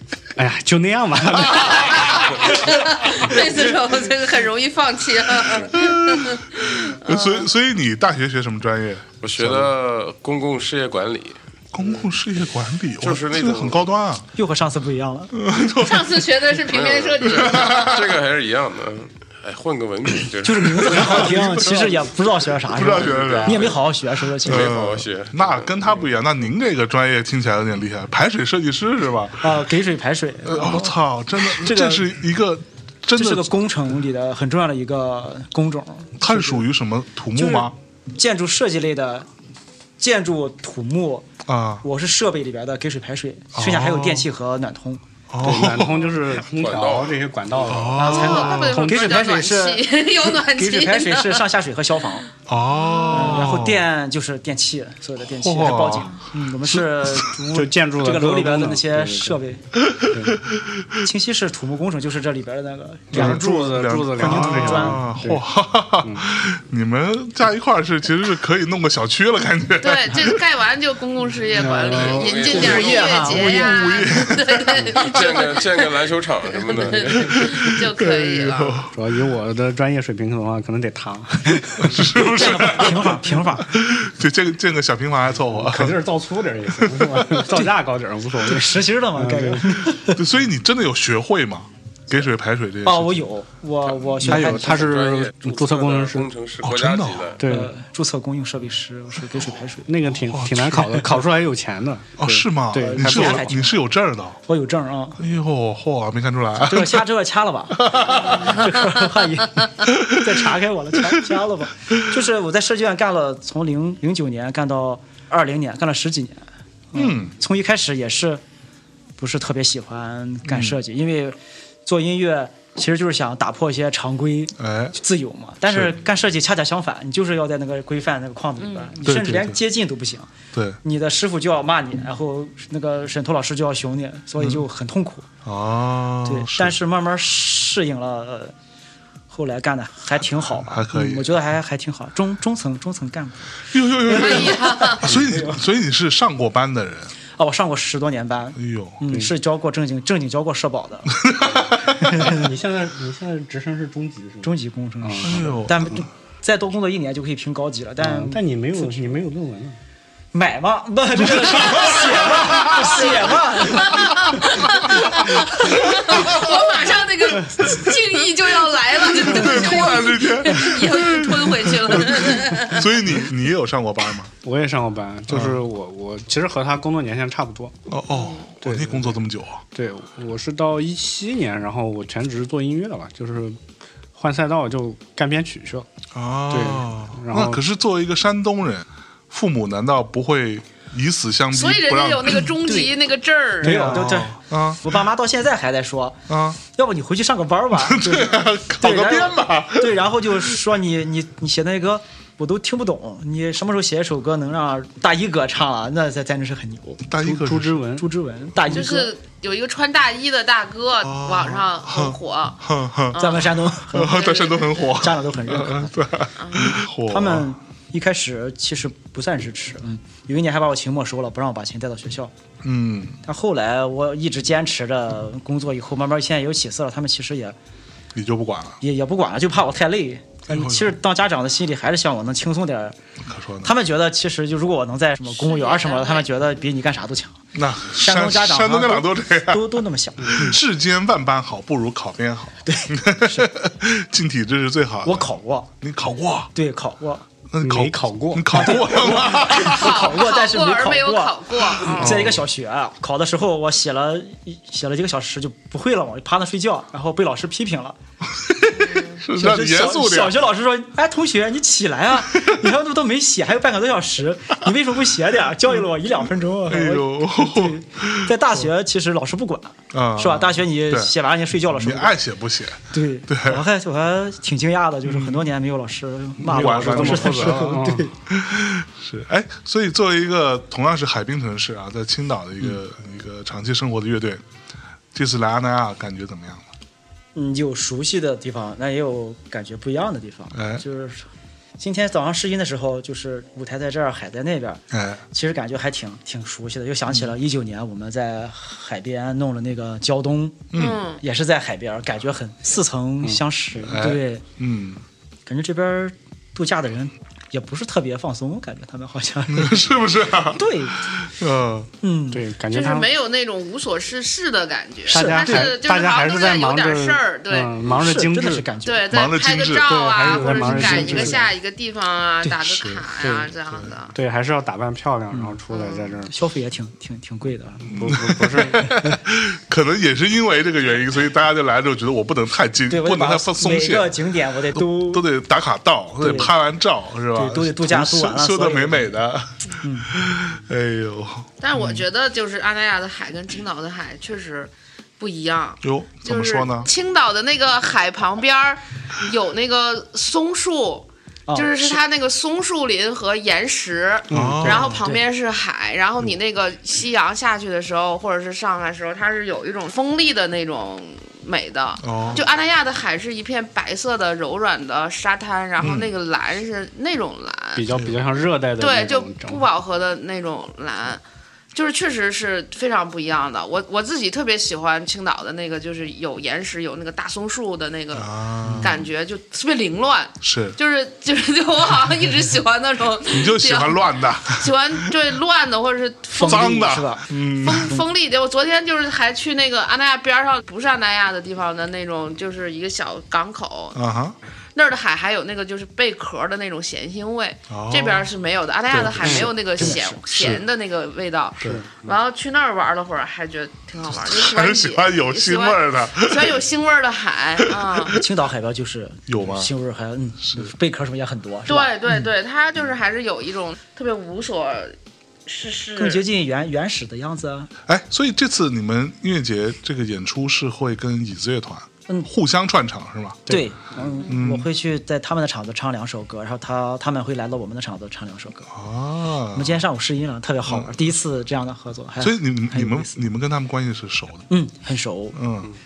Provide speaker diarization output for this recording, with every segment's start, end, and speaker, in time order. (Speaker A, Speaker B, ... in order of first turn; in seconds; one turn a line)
Speaker A: 0.3-2.2
Speaker B: 1.5-7.5
Speaker C: 5.7-9.7
Speaker D: 9.2-12.1
Speaker C: 11.7-14.2
Speaker D: 13.0-13.9
Speaker E: 14.3-15.3
Speaker C: 15.3-16.3
Speaker B: 15.8-17.9
Speaker D: 16.7-21.9
Speaker C: 17.4-18.2
Speaker E: 20.4-24.8
Speaker C: 20.8-21.9
Speaker C: 22.7-23.8
Speaker D: 22.7-23.8
Speaker D: 24.4-26.1
Speaker C: 24.4-29.6
Speaker E: 29.4-32.2
Speaker C: 30.4-33.5
Speaker E: 33.1-36.7
Speaker C: 36.2-37.7
Speaker E: 37.3-39.3
Speaker E: 40.0-41.3
Speaker C: 41.5-41.8
Speaker E: 41.8-45.0
Speaker C: 43.5-44.3
Speaker C: 45.3-46.1
Speaker A: 45.4-49.2
Speaker D: 46.4-47.2
Speaker C: 47.6-48.7
Speaker E: 48.0-52.3
Speaker B: 48.0-51.4
Speaker C: 52.5-53.8
Speaker B: 52.7-53.5
Speaker E: 53.1-59.7
Speaker C: 55.3-56.2
Speaker C: 56.8-57.3
Speaker A: 57.5-59.4
Speaker C: 59.9-61.0
Speaker A: 60.1-60.4
Speaker E: 61.0-65.1
Speaker A: 63.1-65.4
Speaker C: 63.1-70.4
Speaker B: 69.8-75.9
Speaker A: 71.5-72.3
Speaker D: 71.7-73.3
Speaker E: 72.4-73.8
Speaker C: 73.2-75.3
Speaker D: 74.8-77.7
Speaker B: 76.5-78.8
Speaker C: 77.3-78.9
Speaker A: 78.9-82.2
Speaker C: 81.8-86.0
Speaker E: 82.2-83.8
Speaker A: 85.4-89.8
Speaker C: 86.8-87.6
Speaker E: 88.4-90.2
Speaker C: 90.1-93.2
Speaker E: 92.8-94.9
Speaker A: 94.2-96.3
Speaker D: 94.5-97.4
Speaker C: 96.6-97.3
Speaker A: 97.4-97.7
Speaker E: 97.4-100.0
Speaker A: 99.9-103.5
Speaker C: 100.3-101.2
Speaker C: 102.2-104.4
Speaker E: 102.7-103.8
Speaker E: 104.5-105.2
Speaker C: 105.2-107.0
Speaker E: 106.6-118.4
Speaker C: 107.8-108.8
Speaker C: 109.8-110.3
Speaker C: 116.9-117.3
Speaker E: 119.2-130.3
Speaker C: 120.5-120.8
Speaker C: 124.6-124.9
Speaker C: 125.7-126.0
Speaker B: 128.6-128.9
Speaker C: 129.0-129.6
Speaker C: 130.5-130.8
Speaker E: 130.8-135.3
Speaker C: 135.4-136.7
Speaker E: 136.2-138.5
Speaker E: 139.3-145.6
Speaker C: 140.6-141.3
Speaker C: 143.7-147.1
Speaker B: 144.1-145.1
Speaker E: 147.3-151.2
Speaker C: 148.6-149.0
Speaker C: 151.2-152.1
Speaker E: 152.0-152.5
Speaker A: 152.0-155.5
Speaker E: 154.4-159.1
Speaker C: 155.2-156.1
Speaker A: 158.0-159.8
Speaker E: 160.3-164.5
Speaker C: 161.5-163.1
Speaker B: 161.7-172.8
Speaker E: 165.6-166.2
Speaker C: 166.1-166.6
Speaker C: 169.2-174.3
Speaker A: 174.4-177.7
Speaker C: 175.3-175.6
Speaker C: 177.9-179.6
Speaker B: 178.1-178.5
Speaker A: 178.6-179.2
Speaker A: 179.7-183.6
Speaker A: 184.1-185.9
Speaker C: 186.1-192.6
Speaker A: 186.5-187.6
Speaker B: 191.5-193.9
Speaker E: 192.7-192.9
Speaker E: 193.6-207.0
Speaker A: 193.6-194.1
Speaker C: 193.9-194.9
Speaker C: 196.3-196.6
Speaker C: 197.8-199.9
Speaker C: 207.1-207.8
Speaker A: 207.2-208.1
Speaker E: 207.8-209.1
Speaker B: 208.7-212.6
Speaker C: 211.0-217.5
Speaker B: 213.1-213.5
Speaker E: 213.2-215.9
Speaker B: 214.1-214.7
Speaker B: 216.4-216.8
Speaker E: 216.5-222.3
Speaker C: 222.6-223.2
Speaker E: 223.2-227.6
Speaker C: 228.1-228.8
Speaker E: 228.8-233.0
Speaker C: 230.5-230.9
Speaker C: 233.2-233.7
Speaker E: 233.6-240.6
Speaker B: 235.3-236.3
Speaker C: 237.5-239.7
Speaker C: 240.3-245.3
Speaker E: 242.7-243.5
Speaker E: 245.0-245.7
Speaker C: 245.8-246.5
Speaker E: 246.5-247.2
Speaker C: 247.5-250.0
Speaker A: 247.6-248.8
Speaker E: 248.5-258.0
Speaker B: 249.5-252.2
Speaker C: 251.9-252.4
Speaker C: 258.4-260.4
Speaker B: 258.7-259.2
Speaker E: 259.3-272.2
Speaker C: 266.6-268.3
Speaker C: 269.9-271.1
Speaker C: 271.7-273.6
Speaker E: 272.9-278.1
Speaker C: 275.1-275.4
Speaker A: 276.4-278.1
Speaker C: 276.4-284.4
Speaker C: 285.1-286.7
Speaker E: 287.3-304.4
Speaker C: 290.5-290.8
Speaker C: 294.9-295.2
Speaker C: 300.7-301.0
Speaker B: 300.8-301.2
Speaker A: 303.2-304.0
Speaker C: 303.9-305.0
Speaker E: 305.4-309.9
Speaker C: 309.5-311.9
Speaker E: 310.5-311.0
Speaker E: 312.0-312.4
Speaker A: 312.3-313.1
Speaker B: 312.7-317.8
Speaker E: 315.1-315.8
Speaker A: 315.1-318.7
Speaker E: 317.9-319.1
Speaker B: 318.8-324.1
Speaker C: 319.1-321.2
Speaker A: 319.8-321.5
Speaker E: 320.6-321.4
Speaker C: 322.6-323.1
Speaker A: 323.2-323.5
Speaker C: 323.7-323.9
Speaker A: 324.1-326.3
Speaker E: 325.3-325.6
Speaker B: 325.7-326.2
Speaker E: 326.3-328.1
Speaker A: 327.8-328.9
Speaker C: 327.9-334.2
Speaker E: 328.8-329.2
Speaker E: 332.9-335.3
Speaker C: 334.7-342.0
Speaker E: 336.2-336.5
Speaker E: 337.3-339.2
Speaker E: 339.8-340.1
Speaker B: 341.6-367.9
Speaker C: 345.8-346.9
Speaker E: 351.5-352.0
Speaker A: 354.3-354.8
Speaker C: 354.3-355.1
Speaker C: 362.0-362.5
Speaker C: 365.8-366.1
Speaker A: 367.7-369.7
Speaker B: 368.8-371.2
Speaker B: 371.7-386.7
Speaker C: 378.1-379.1
Speaker C: 380.4-380.8
Speaker C: 383.3-385.1
Speaker E: 386.3-387.3
Speaker C: 386.4-388.0
Speaker B: 387.6-394.0
Speaker C: 393.9-394.4
Speaker B: 394.7-408.2
Speaker C: 397.7-398.3
Speaker C: 398.9-400.6
Speaker A: 399.1-399.8
Speaker E: 399.8-400.2
Speaker A: 401.6-402.1
Speaker C: 404.0-406.6
Speaker C: 407.7-408.1
Speaker E: 408.1-412.3
Speaker C: 409.3-409.7
Speaker C: 410.4-410.7
Speaker B: 411.7-416.2
Speaker E: 415.9-417.7
Speaker C: 417.9-423.4
Speaker E: 423.5-428.7
Speaker C: 424.3-424.7
Speaker C: 428.7-429.8
Speaker E: 429.5-433.2
Speaker C: 432.2-434.5
Speaker E: 434.5-435.4
Speaker C: 435.3-435.7